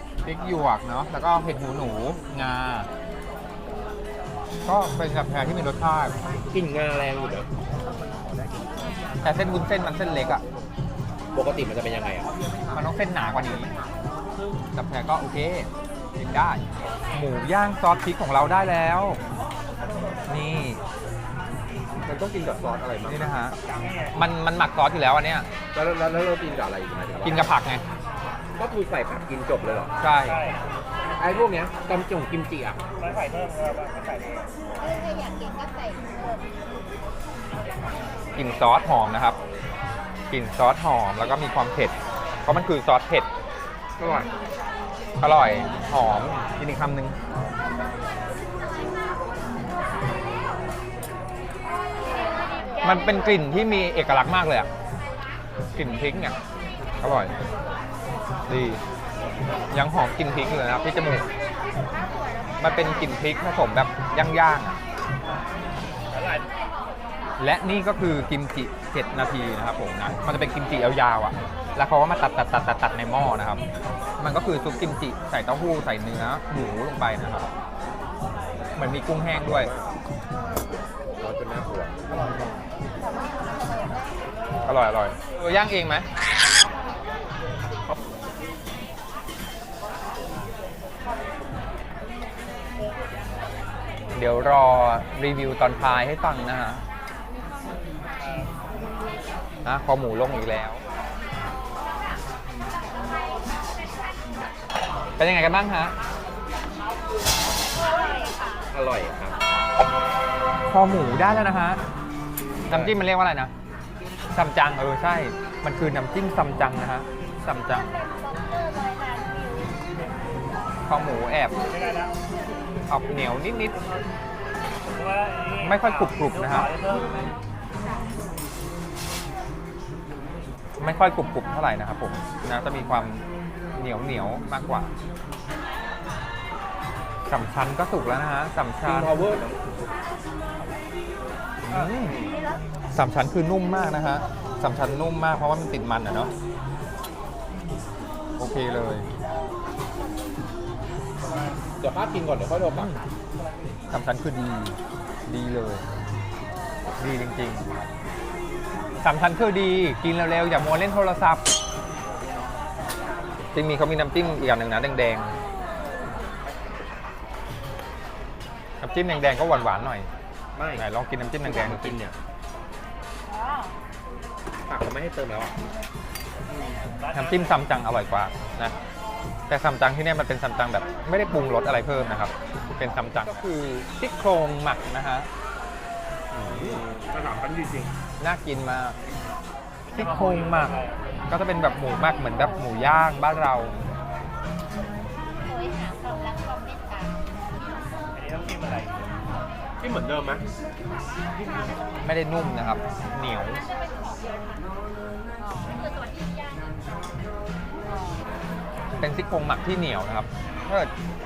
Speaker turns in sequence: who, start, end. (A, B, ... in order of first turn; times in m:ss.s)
0:00.2-0:02.9 A
0:04.7-0:06.2 A
0:06.4-0:07.5 B
0:09.2-0:10.4 A
0:11.3-0:12.3 B
0:12.7-0:13.7 A
0:14.8-0:19.2 A
0:20.3-0:20.8 A
0:22.0-0:23.3 B
0:23.0-0:23.6 A
0:23.8-0:24.1 C
0:24.1-0:25.5 A
0:25.7-0:27.4 B
0:27.2-0:27.8 A
0:28.6-0:29.9 B
0:30.0-0:30.4 A
0:31.2-0:32.8 B
0:33.0-0:34.5 C
0:34.8-0:36.6 D
0:38.4-0:39.4 A
0:40.3-0:43.3 A
0:44.0-0:44.3 B
0:45.2-0:47.2 A
0:52.8-0:54.7 A
0:55.7-0:56.4 A
0:57.0-0:57.4 A
0:58.5-0:58.8 A
0:59.7-1:01.3 A
1:01.9-1:02.9 D
1:02.6-1:04.8 A
1:06.2-1:06.4 C
1:07.4-1:13.6 A
1:14.2-1:17.5 A
1:18.8-1:19.7 A
1:19.3-1:19.9 B
1:21.2-1:22.1 B
1:23.1-1:24.0 D
1:24.6-1:26.1 A
1:34.1-1:36.8 A
1:39.6-1:40.8 A
1:45.2-1:46.0 A
1:47.9-1:48.6 D
1:48.7-1:49.4 B
1:50.7-1:51.8 A
1:52.7-1:52.9 B
1:52.7-1:53.5 A
1:54.3-1:57.9 A
1:57.9-1:59.7 D
2:00.9-2:01.6 A
2:01.7-2:02.1 C
2:02.9-2:03.8 A
2:05.0-2:07.0 C
2:05.6-2:06.7 A
2:10.8-2:13.2 A
2:13.8-2:14.9 A
2:17.3-2:19.2 A
2:18.8-2:19.6 B
2:21.6-2:22.2 A
2:21.8-2:22.4 B
2:22.9-2:26.3 A
2:28.4-2:29.1 A
2:31.8-2:33.0 B
2:32.7-2:33.0 A
2:33.9-2:35.8 A
2:37.0-2:37.7 A
2:39.0-2:41.4 A
2:43.5-2:45.4 A
2:48.8-2:50.1 A
2:50.6-2:50.8 B
2:50.8-2:52.0 A
2:51.4-2:52.2 B
2:53.3-2:53.7 D
2:54.7-2:55.6 B
2:56.5-2:56.9 B
2:57.1-2:58.8 A
2:59.5-3:05.3 A
3:06.3-3:07.9 B
3:08.2-3:09.0 A
3:09.9-3:10.8 A
3:10.0-3:10.9 C
3:11.3-3:13.8 A
3:15.4-3:17.3 D
3:18.2-3:19.1 C
3:19.8-3:20.4 B
3:22.0-3:23.6 A
3:23.7-3:24.4 D
3:25.4-3:26.7 D
3:27.9-3:28.3 D
3:29.0-3:30.9 A